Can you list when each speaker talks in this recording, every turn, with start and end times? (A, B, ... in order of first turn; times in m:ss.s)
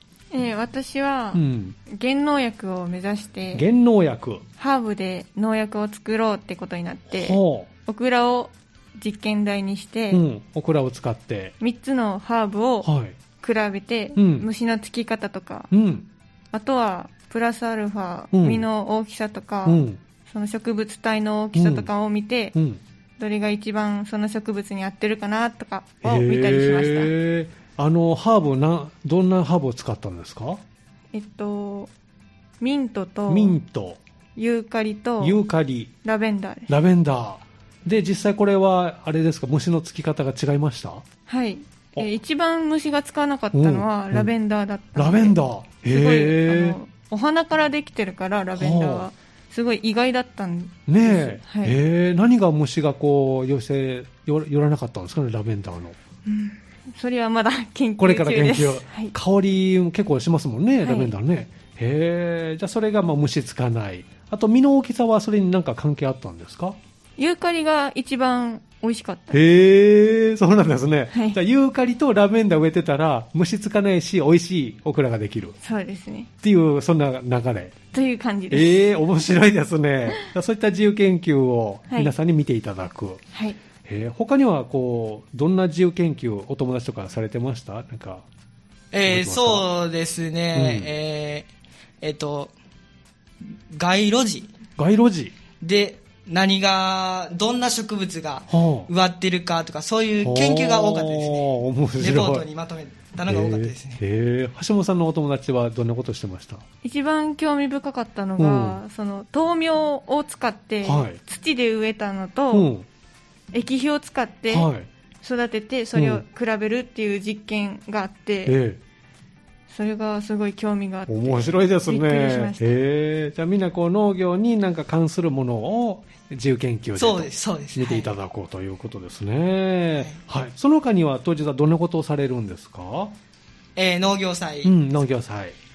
0:00.3-0:03.7 A
0:01.3-0:01.8 B
0:03.5-0:04.4 B
0:04.6-0:10.2 A
0:07.1-0:07.7 B
0:10.1-0:11.5 B
0:11.6-0:15.7 A
0:12.8-0:13.2 B
0:14.2-0:14.5 B
0:15.7-0:16.0 B
0:16.5-0:22.5 A
0:18.3-0:18.6 B
0:19.6-0:20.0 B
0:21.5-0:21.9 B
0:22.5-0:22.8 B
0:23.2-0:27.1 A
0:26.0-0:30.6 B
0:31.1-0:31.9 A
0:32.6-0:33.6 A
0:33.3-0:34.0 B
0:34.4-0:35.4 A
0:35.2-0:35.9 B
0:36.0-0:36.7 A
0:36.7-0:41.0 B
0:41.3-0:51.8 A
0:43.5-0:44.3 B
0:45.0-0:46.8 B
0:48.6-0:49.1 B
0:50.9-0:56.0 B
0:56.2-0:59.1 A
0:58.0-1:06.8 B
1:00.8-1:01.1 A
1:07.2-1:09.4 A
1:09.3-1:15.5 B
1:11.1-1:11.4 A
1:15.6-1:16.3 A
1:16.4-1:17.8 B
1:17.9-1:18.8 A
1:18.5-1:23.2 B
1:23.8-1:28.2 B
1:28.9-1:31.5 C
1:29.0-1:29.6 B
1:30.5-1:30.9 B
1:32.0-1:32.5 C
1:33.7-1:34.5 C
1:34.8-1:35.3 B
1:35.6-1:41.4 C
1:38.5-1:38.9 B
1:40.2-1:42.4 B
1:42.0-1:44.0 C
1:43.3-1:46.6 B
1:46.8-1:52.7 A
1:48.4-1:48.8 B
1:50.8-1:51.2 B
1:52.5-1:52.8 B
1:53.5-1:54.7 A
1:54.5-1:54.9 B
1:55.2-1:58.5 A
1:56.0-1:56.2 B
1:58.4-1:58.8 B
1:59.7-2:02.7 A
2:01.1-2:13.1 B
2:07.0-2:08.1 C
2:13.8-2:14.7 C
2:14.6-2:15.6 B